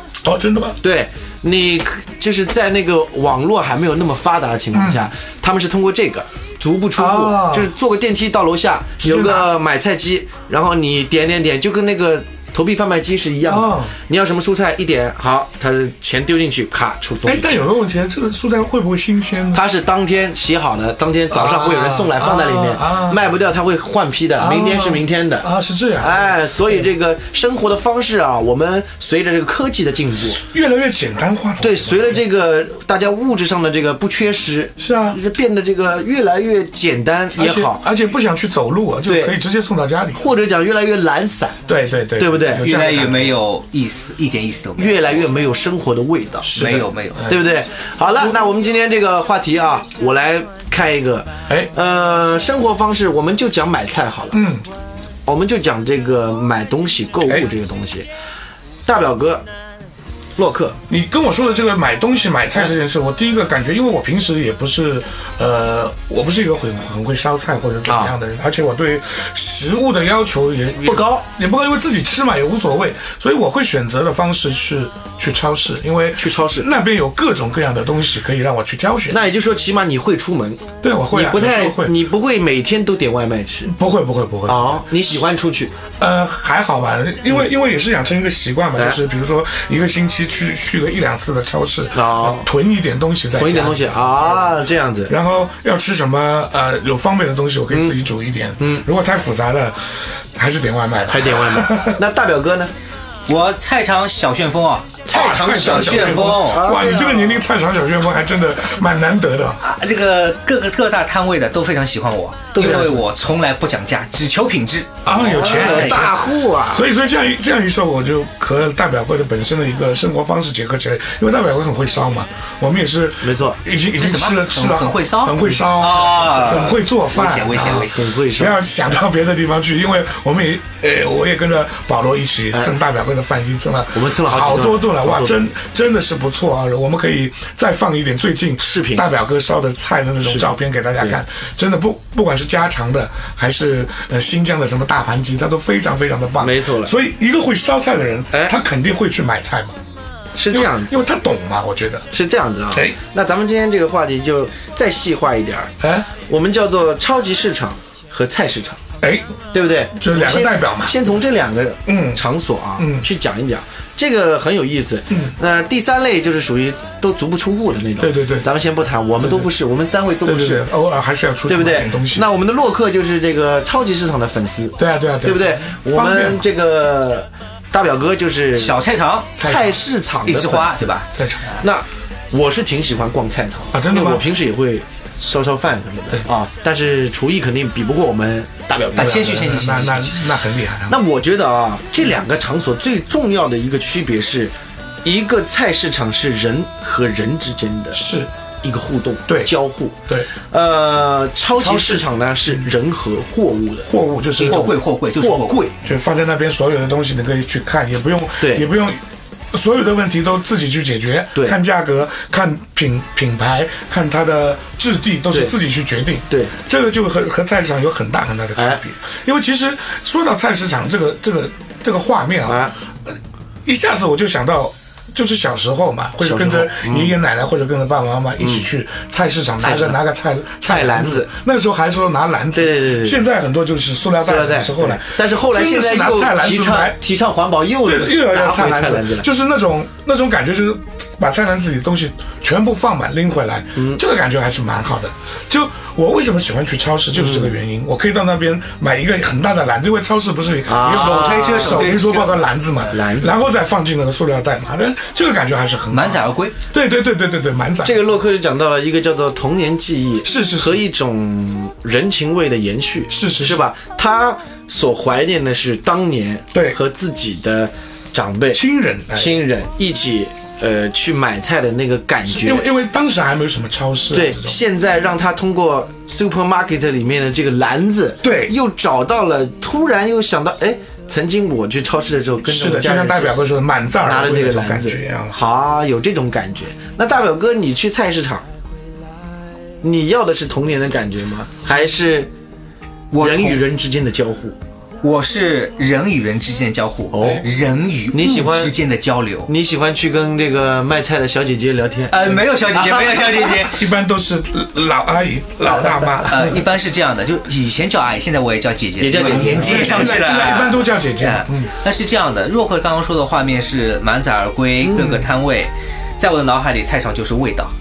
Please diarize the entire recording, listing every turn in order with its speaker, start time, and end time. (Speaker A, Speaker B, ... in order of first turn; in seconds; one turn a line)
Speaker A: 0.2-0.8
Speaker B: 0.8-17.5
Speaker A: 4.7-5.0
Speaker A: 7.0-7.7
Speaker A: 9.0-9.5
Speaker A: 13.5-13.9
Speaker A: 17.2-19.6
Speaker B: 19.5-25.5
Speaker A: 21.3-23.2
Speaker A: 24.4-26.8
Speaker B: 26.0-30.4
Speaker A: 30.4-32.2
Speaker B: 31.6-37.9
Speaker A: 34.8-35.2
Speaker A: 37.4-40.3
Speaker B: 39.0-39.4
Speaker B: 40.2-41.6
Speaker A: 41.7-43.4
Speaker B: 42.2-42.7
Speaker C: 42.6-45.3
Speaker B: 44.8-54.5
Speaker A: 46.4-47.6
Speaker C: 46.5-47.2
Speaker A: 54.3-54.6
Speaker B: 55.3-58.1
Speaker B: 58.9-59.5
Speaker B: 60.4-60.8
Speaker A: 60.9-79.2
Speaker B: 67.9-68.1
Speaker B: 70.8-71.3
Speaker B: 76.2-76.7
Speaker B: 79.1-83.7
Speaker A: 80.8-82.0
Speaker A: 83.7-85.3
Speaker B: 84.5-85.7
Speaker A: 86.0-94.6
Speaker B: 91.9-92.5
Speaker B: 93.3-95.1
Speaker A: 95.1-102.0
Speaker B: 97.7-98.0
Speaker B: 98.6-98.9
Speaker B: 101.1-102.7
Speaker C: 103.3-106.7
Speaker B: 105.0-107.4
Speaker A: 105.1-109.6
Speaker C: 109.6-116.1
Speaker B: 112.5-113.0
Speaker A: 115.0-149.8
Speaker B: 115.2-116.9
Speaker B: 123.2-123.6
Speaker C: 124.0-128.1
Speaker B: 127.6-128.6
Speaker B: 133.9-135.4
Speaker B: 138.6-139.1
Speaker B: 140.2-141.2
Speaker B: 146.4-146.9
Speaker B: 150.4-151.1
Speaker A: 150.5-152.1
Speaker B: 152.1-158.8
Speaker A: 152.7-153.0
Speaker A: 155.8-156.1
Speaker A: 159.0-159.4
Speaker B: 159.5-170.7
Speaker A: 159.9-161.1
Speaker A: 161.9-162.2
Speaker A: 162.8-163.1
Speaker A: 168.0-168.5
Speaker A: 169.2-169.5
Speaker A: 170.2-172.3
Speaker B: 171.5-178.8
Speaker A: 174.8-176.4
Speaker C: 178.6-179.4
Speaker A: 179.4-179.8
Speaker B: 179.4-180.9
Speaker C: 180.2-181.1
Speaker A: 181.1-181.6
Speaker B: 181.6-189.7
Speaker A: 183.7-184.3
Speaker C: 188.9-190.3
Speaker A: 189.0-191.0
Speaker B: 190.9-198.1
Speaker A: 197.9-198.3
Speaker B: 198.6-205.7
Speaker A: 201.6-202.1
Speaker A: 203.9-204.8
Speaker C: 204.4-205.6
Speaker A: 205.8-237.0
Speaker B: 208.4-208.7
Speaker B: 218.6-218.8
Speaker B: 222.5-222.8
Speaker B: 226.2-227.2
Speaker B: 228.4-228.7
Speaker B: 229.6-230.0
Speaker B: 230.7-231.3
Speaker B: 232.5-233.2
Speaker B: 234.2-239.3
Speaker A: 237.8-258.1
Speaker B: 243.8-244.0
Speaker B: 247.1-247.5
Speaker B: 250.7-251.9
Speaker C: 250.8-252.4
Speaker B: 252.9-253.4
Speaker C: 255.9-256.6
Speaker B: 257.8-268.6
Speaker A: 260.2-260.8
Speaker A: 263.1-263.6
Speaker A: 268.5-269.4
Speaker B: 269.1-272.7
Speaker A: 272.3-274.6
Speaker B: 274.1-283.4
Speaker A: 278.2-278.5
Speaker A: 282.4-285.4
Speaker B: 284.0-288.4
Speaker B: 289.8-292.3
Speaker C: 293.1-293.6
Speaker B: 293.2-294.6
Speaker C: 295.0-299.5
Speaker B: 297.1-297.5
Speaker B: 298.1-298.7
Speaker B: 299.5-303.6
Speaker C: 302.1-303.9
Speaker A: 303.7-306.7
Speaker B: 305.6-306.2
Speaker C: 306.3-317.7
Speaker B: 309.0-310.2
Speaker A: 309.1-311.7
Speaker B: 314.8-315.2
Speaker A: 314.9-315.2